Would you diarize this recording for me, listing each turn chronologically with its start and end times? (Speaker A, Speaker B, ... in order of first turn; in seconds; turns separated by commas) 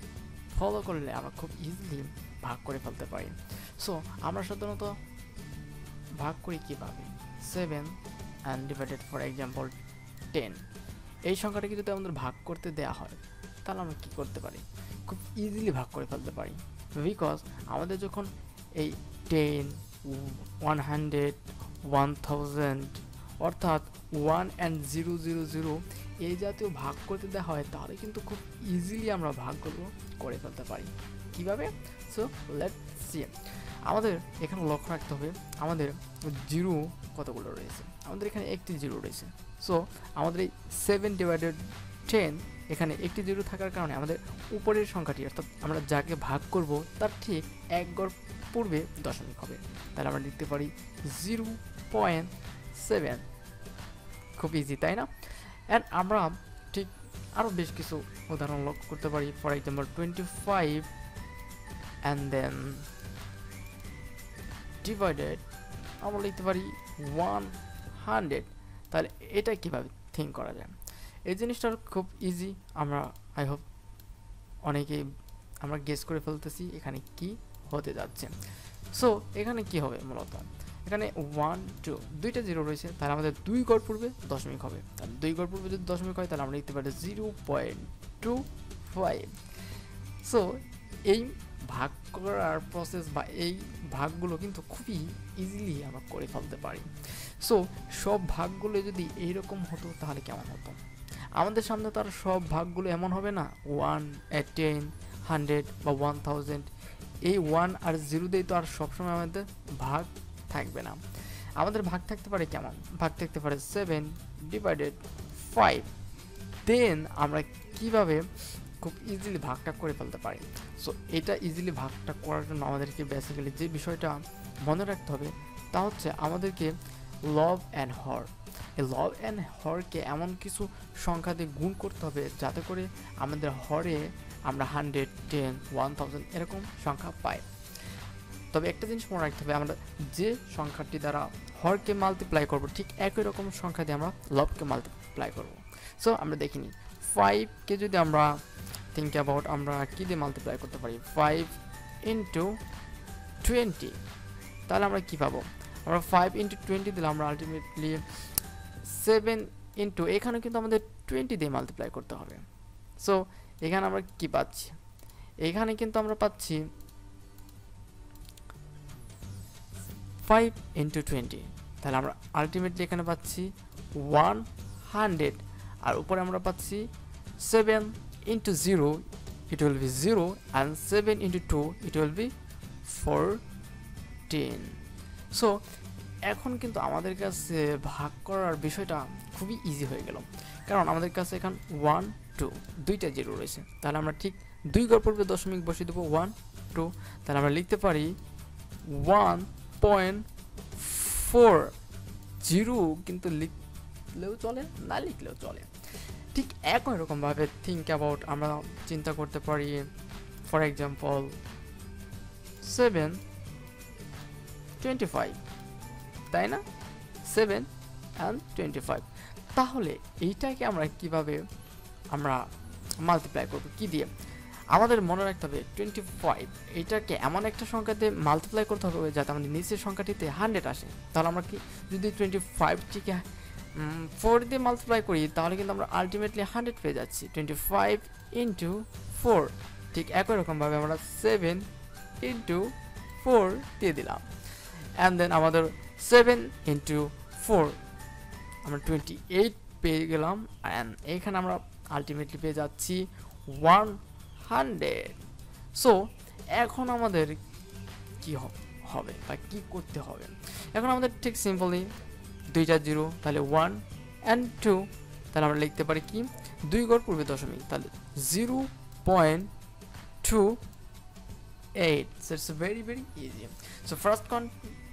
Speaker A: 0.5-4.9, Speaker A: 6.2-8.0, Speaker A: 8.5-9.8, Speaker A: 10.3-10.6, Speaker A: 11.3-53.2, Speaker A: 54.4-60.9, Speaker A: 62.0-62.9, Speaker A: 64.8-65.4, Speaker A: 66.0-70.8, Speaker A: 71.3-73.6, Speaker A: 74.7-75.0, Speaker A: 75.6-78.3, Speaker A: 78.9-89.4, Speaker A: 90.2-90.6, Speaker A: 91.1-100.8, Speaker A: 101.4-106.7, Speaker A: 107.2-111.0, Speaker A: 111.6-115.9, Speaker A: 116.6-118.3, Speaker A: 118.8-126.7, Speaker A: 127.3-137.5, Speaker A: 138.5-148.4, Speaker A: 148.9-152.6, Speaker A: 153.4-154.0, Speaker A: 154.7-158.0, Speaker A: 158.8-162.4, Speaker A: 163.0-164.8, Speaker A: 165.4-166.6, Speaker A: 170.2-176.8, Speaker A: 177.4-182.3, Speaker A: 182.9-183.4, Speaker A: 184.3-184.8, Speaker A: 186.3-198.1, Speaker A: 198.9-200.2, Speaker A: 200.8-201.7, Speaker A: 202.4-203.6, Speaker A: 204.1-205.7, Speaker A: 206.3-209.8, Speaker A: 210.5-211.4, Speaker A: 212.6-213.2, Speaker A: 214.8-215.4, Speaker A: 216.3-216.6, Speaker A: 217.3-221.4, Speaker A: 222.1-222.4, Speaker A: 223.0-224.1, Speaker A: 224.7-233.2, Speaker A: 233.8-241.7, Speaker A: 242.2-244.3, Speaker A: 245.0-247.8, Speaker A: 248.7-255.2, Speaker A: 256.5-257.4, Speaker A: 258.2-261.9, Speaker A: 262.5-269.5, Speaker A: 270.2-270.6, Speaker A: 271.8-274.5